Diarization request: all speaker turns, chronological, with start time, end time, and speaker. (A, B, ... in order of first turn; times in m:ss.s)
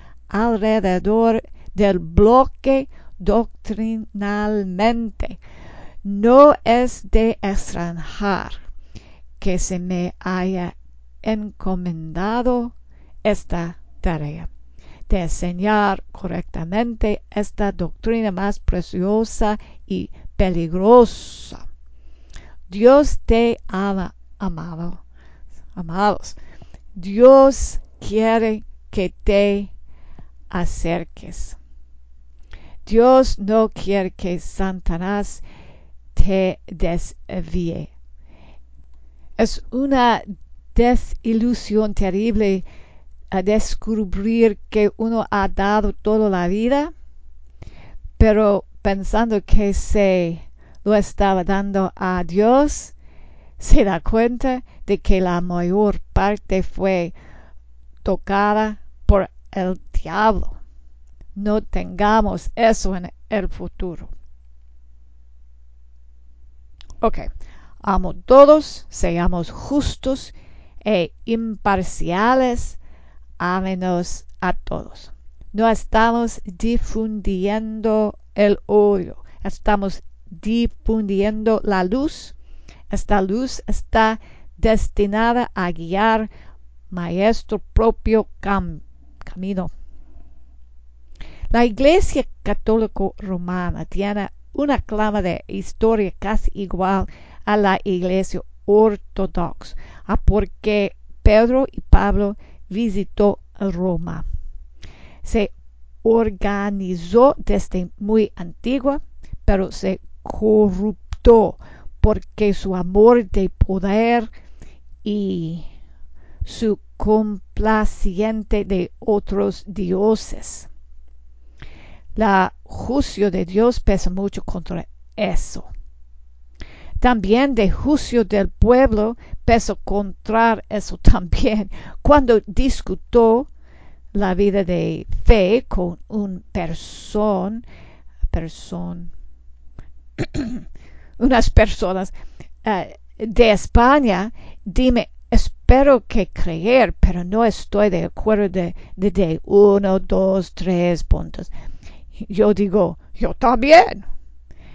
0:00.3-0:05.4 A
0:06.0-0:08.6 A
0:09.4-0:14.5 A
0:15.1-0:21.6 A
0:22.7-0:25.0 A
0:25.7-0:26.4 A
0:26.9-0:29.7 A
0:30.5-0:31.6 A
0:32.8-0:35.4 A
0:36.1-0:37.9 A
0:39.4-0:42.6 A
0:43.3-0:46.9 A
0:48.2-0:52.9 A
0:53.6-0:57.1 A
0:58.0-1:00.6 A
1:01.3-1:04.1 A
1:07.0-1:07.2 A
1:07.8-1:12.8 A
1:13.4-1:22.3 A
1:22.9-1:26.3 A
1:26.9-1:29.7 A
1:31.5-1:44.2 A
1:45.2-1:45.5 A
1:46.0-1:54.3 A
1:55.0-1:55.6 A
1:56.4-2:00.7 A
2:02.2-2:05.7 A
2:07.0-2:13.5 A
2:14.1-2:17.6 A
2:18.3-2:19.1 A
2:20.2-2:20.6 A
2:21.2-2:22.1 A
2:22.6-2:31.5 A
2:32.2-2:34.0 A